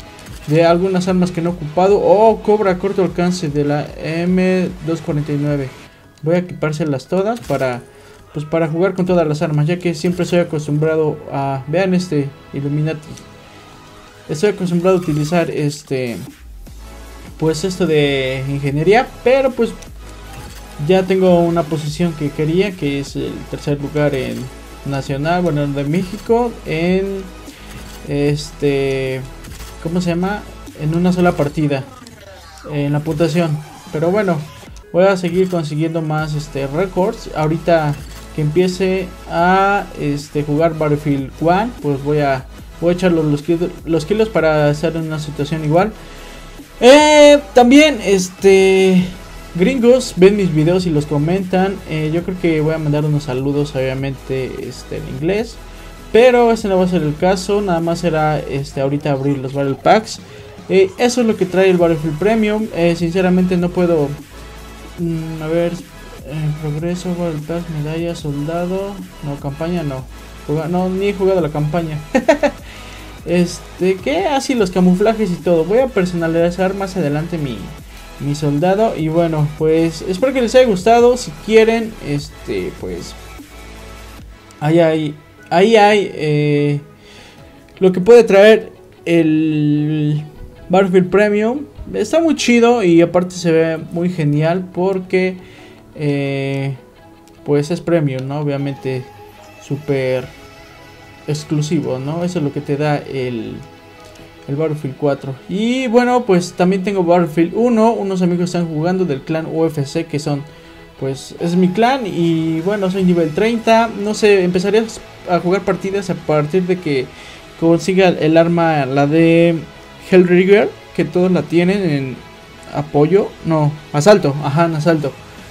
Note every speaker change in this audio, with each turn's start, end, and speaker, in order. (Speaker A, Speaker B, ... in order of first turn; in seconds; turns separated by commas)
Speaker A: 0.4-13.3, Speaker A: 14.3-16.3, Speaker A: 17.4-19.8, Speaker A: 20.8-27.3, Speaker A: 28.0-29.3, Speaker A: 29.8-31.9, Speaker A: 32.7-45.9, Speaker A: 46.8-55.6, Speaker A: 56.1-64.2, Speaker A: 65.0-72.6, Speaker A: 73.2-83.2, Speaker A: 84.6-86.8, Speaker A: 87.8-95.4, Speaker A: 95.9-96.8, Speaker A: 97.4-100.3, Speaker A: 101.3-103.7, Speaker A: 104.5-125.2